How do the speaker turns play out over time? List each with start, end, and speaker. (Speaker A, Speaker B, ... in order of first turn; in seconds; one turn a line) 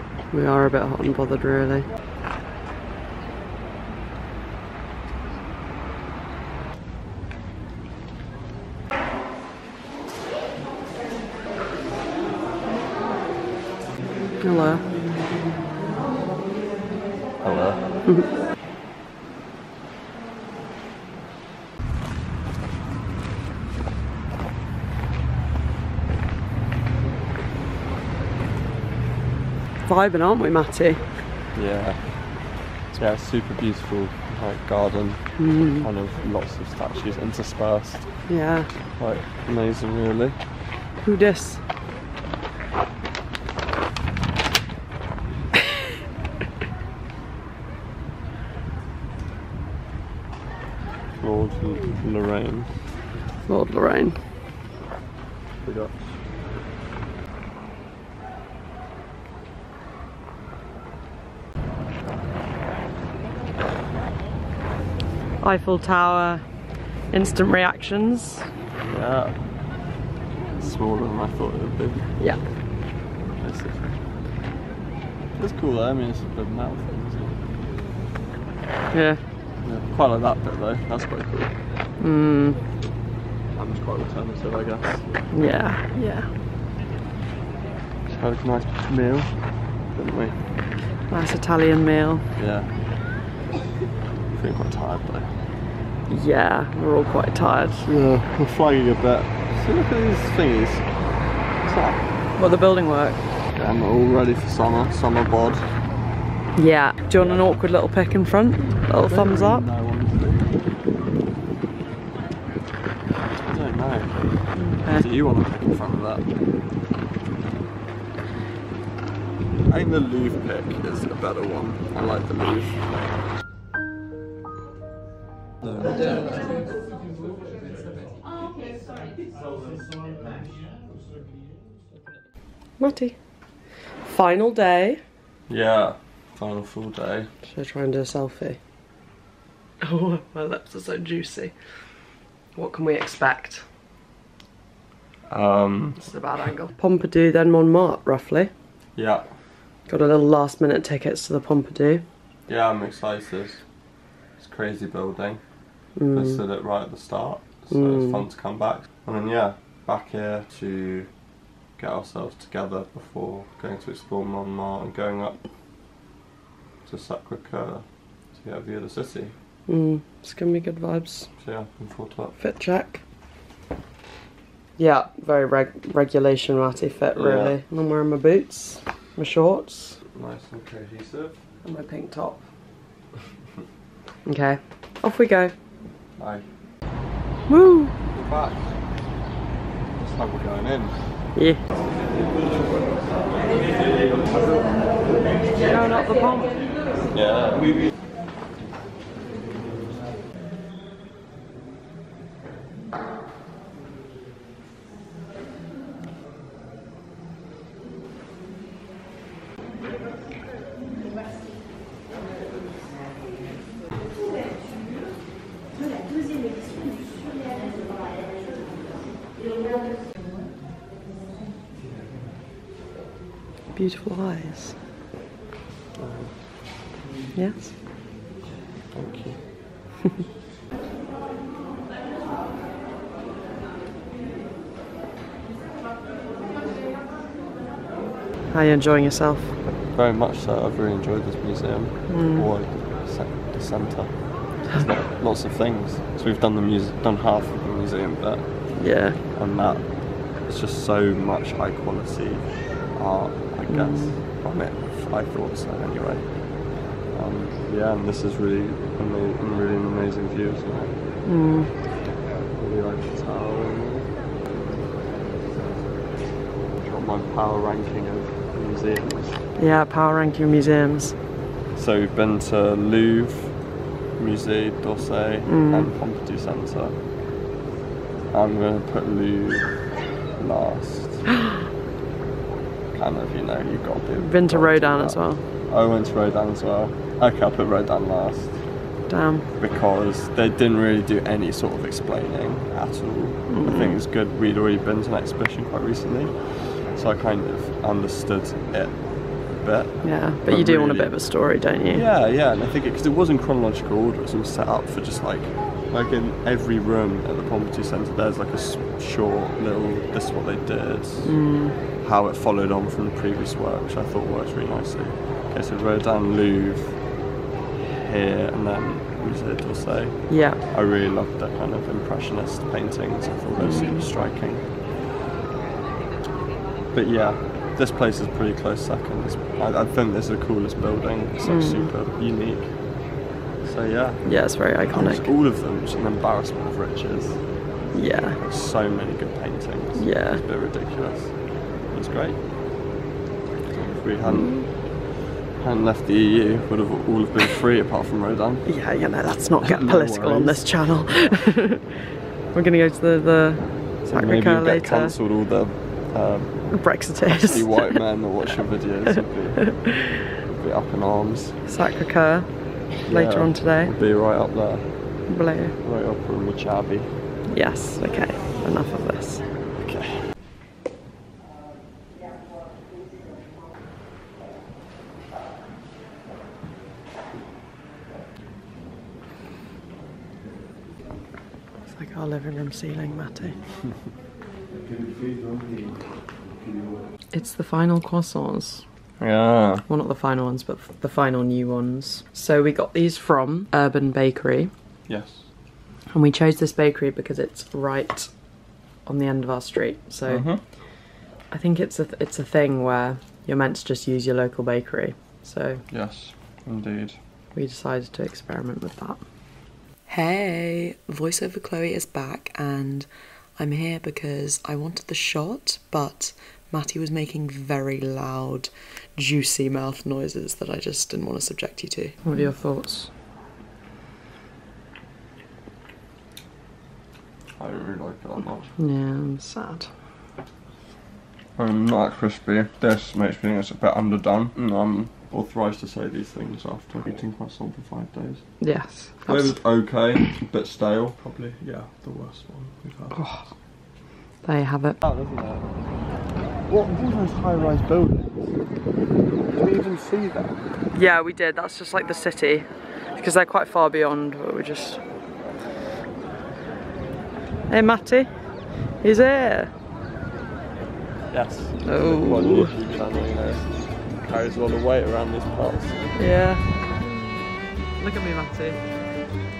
Speaker A: 0.3-1.9
Speaker A: 14.4-14.8
Speaker B: 17.4-17.9
Speaker A: 29.8-31.1
Speaker B: 31.5-38.3
Speaker A: 35.4-35.9
Speaker A: 38.2-38.7
Speaker B: 38.9-40.4
Speaker A: 41.0-41.6
Speaker B: 51.2-52.7
Speaker A: 53.5-54.2
Speaker B: 55.6-56.0
Speaker A: 65.4-66.4
Speaker A: 67.1-68.5
Speaker B: 68.8-69.4
Speaker B: 70.6-72.0
Speaker B: 73.4-74.0
Speaker B: 75.4-77.4
Speaker A: 78.9-79.2
Speaker B: 79.6-81.5
Speaker A: 82.0-82.6
Speaker B: 83.5-85.1
Speaker A: 85.3-86.3
Speaker B: 88.1-89.4
Speaker B: 89.9-90.4
Speaker A: 91.1-92.2
Speaker B: 92.3-92.7
Speaker B: 94.3-95.3
Speaker A: 96.1-97.9
Speaker B: 97.8-100.9
Speaker B: 101.6-102.1
Speaker A: 102.3-103.2
Speaker B: 103.5-105.7
Speaker A: 106.5-109.6
Speaker B: 107.2-107.6
Speaker B: 108.9-110.5
Speaker B: 113.4-116.2
Speaker A: 114.5-115.0
Speaker B: 119.7-122.8
Speaker B: 125.6-126.4
Speaker A: 132.8-133.2
Speaker A: 134.0-135.0
Speaker B: 135.5-137.3
Speaker A: 137.4-138.6
Speaker A: 139.8-141.5
Speaker A: 142.5-143.6
Speaker B: 145.3-146.1
Speaker A: 146.0-148.5
Speaker B: 148.9-149.3
Speaker A: 149.9-152.0
Speaker B: 152.5-153.6
Speaker B: 154.4-155.4
Speaker A: 155.9-156.4
Speaker B: 156.1-161.1
Speaker A: 157.7-158.2
Speaker B: 161.8-165.4
Speaker B: 166.8-169.3
Speaker A: 169.7-171.3
Speaker B: 171.4-172.3
Speaker A: 172.4-173.0
Speaker A: 174.8-180.0
Speaker B: 177.2-177.6
Speaker B: 180.1-181.4
Speaker A: 181.6-182.4
Speaker A: 184.2-185.5
Speaker B: 186.2-186.4
Speaker A: 187.5-187.9
Speaker B: 188.1-188.7
Speaker B: 189.9-191.0
Speaker A: 191.3-191.6
Speaker A: 195.6-196.8
Speaker B: 197.1-197.8
Speaker A: 223.7-224.8
Speaker B: 225.9-226.3
Speaker A: 227.3-227.7
Speaker B: 228.9-229.4
Speaker A: 238.5-239.6
Speaker B: 239.7-248.5
Speaker A: 242.1-242.5
Speaker A: 248.7-249.2
Speaker B: 249.3-249.9
Speaker B: 250.4-256.2
Speaker A: 253.7-254.2
Speaker B: 257.1-260.9
Speaker A: 261.2-261.7
Speaker B: 262.0-264.1
Speaker B: 266.8-269.4
Speaker A: 269.6-271.1
Speaker B: 271.8-273.6
Speaker B: 274.2-276.9
Speaker A: 275.5-275.9
Speaker B: 278.3-279.7
Speaker B: 280.4-281.3
Speaker B: 282.9-288.6
Speaker A: 284.2-285.4
Speaker A: 289.1-289.4
Speaker B: 289.6-301.2
Speaker A: 293.5-294.0
Speaker A: 300.0-302.0
Speaker B: 301.9-311.4
Speaker A: 311.2-311.8
Speaker B: 312.0-317.0
Speaker B: 317.9-324.6
Speaker A: 320.3-320.6
Speaker A: 323.6-324.1
Speaker B: 326.9-332.7
Speaker A: 331.4-331.9
Speaker B: 333.6-337.4
Speaker A: 334.2-335.3
Speaker A: 337.9-338.4
Speaker B: 338.4-342.4
Speaker A: 339.9-340.4
Speaker B: 343.7-348.6
Speaker A: 344.2-344.7
Speaker A: 348.6-355.1
Speaker B: 349.6-350.7
Speaker B: 354.1-356.7
Speaker A: 356.7-358.0
Speaker B: 357.3-359.9
Speaker A: 359.6-360.2
Speaker B: 360.4-361.6
Speaker A: 361.6-362.5
Speaker A: 363.0-363.9
Speaker B: 363.1-365.2
Speaker A: 365.3-365.7
Speaker B: 365.8-367.1
Speaker A: 367.5-369.4
Speaker B: 369.8-370.3
Speaker A: 381.9-383.6
Speaker A: 387.3-388.8
Speaker B: 389.2-389.9
Speaker A: 389.9-394.7
Speaker B: 395.1-395.4
Speaker A: 396.1-398.3
Speaker A: 399.0-400.6
Speaker B: 400.3-400.6
Speaker A: 401.5-405.8
Speaker B: 405.9-407.2
Speaker A: 407.5-409.2
Speaker C: 410.1-413.1
Speaker C: 413.6-422.2
Speaker A: 422.2-423.1
Speaker B: 427.6-428.7
Speaker A: 428.8-429.9
Speaker B: 431.6-438.4
Speaker A: 438.6-439.6
Speaker B: 439.2-443.2
Speaker A: 443.1-443.5
Speaker A: 444.4-445.0
Speaker B: 445.0-445.7
Speaker B: 446.7-448.5
Speaker B: 449.5-450.6
Speaker A: 450.9-455.0
Speaker A: 457.7-458.3
Speaker A: 459.0-459.7
Speaker B: 461.3-466.1
Speaker A: 461.8-462.7
Speaker A: 466.1-466.7
Speaker A: 468.0-468.8